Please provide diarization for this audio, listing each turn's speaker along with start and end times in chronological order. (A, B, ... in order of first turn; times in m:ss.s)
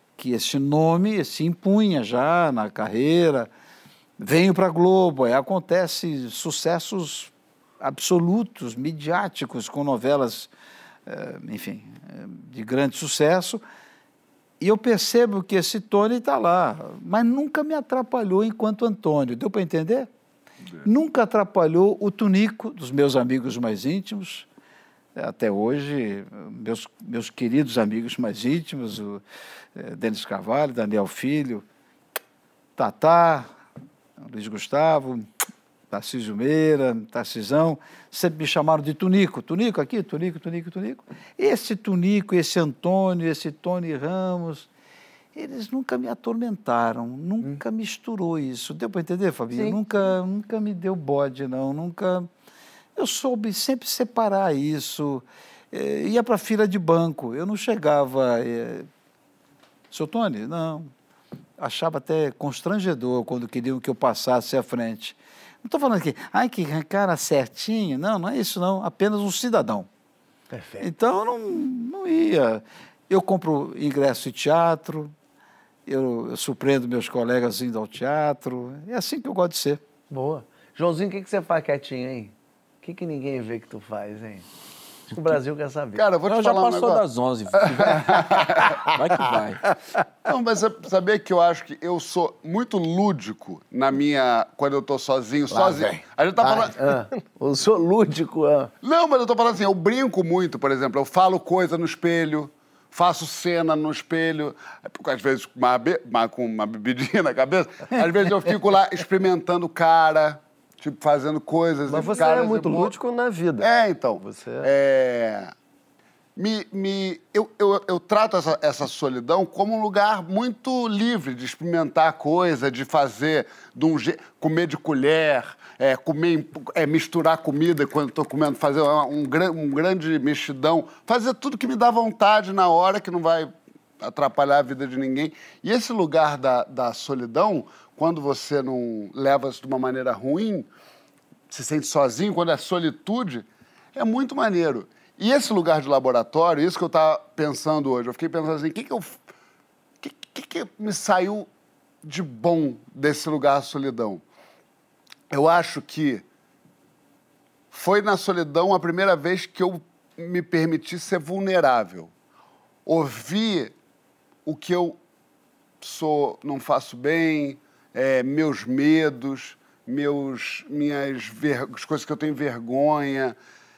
0:00.2-0:03.5 A
0:04.2-0:10.5 A
0:11.1-0:13.6 A
0:14.6-0:20.1 A
0:20.8-0:24.5 A
0:25.2-0:29.2 A
0:29.8-0:31.6 A
0:32.8-0:33.5 A
0:34.2-0:35.3 A
0:35.9-0:44.7 A
0:45.3-0:52.3 A
0:49.5-0:49.8 B
0:53.0-0:58.9 A
0:59.9-1:00.9 A
1:01.6-1:09.9 A
1:10.5-1:10.9 B
1:10.8-1:15.1 A
1:15.9-1:19.8 A
1:20.1-1:24.4 B
1:25.1-1:26.0 B
1:26.0-1:27.0 C
1:26.2-1:28.4 D
1:27.7-1:28.4 C
1:28.9-1:29.7 D
1:30.2-1:36.8 C
1:35.5-1:38.7 B
1:38.8-1:52.9 C
1:51.9-1:53.7 E
1:53.6-1:55.5 C
1:54.2-1:54.7 E
1:56.4-2:20.7 C
2:21.5-2:29.2 C
2:30.0-2:31.5 C
2:32.0-2:34.2 C
2:35.3-2:36.2 C
2:37.7-2:42.1 C
2:42.9-2:43.7 C
2:44.5-2:45.0 C
2:45.8-2:53.4 C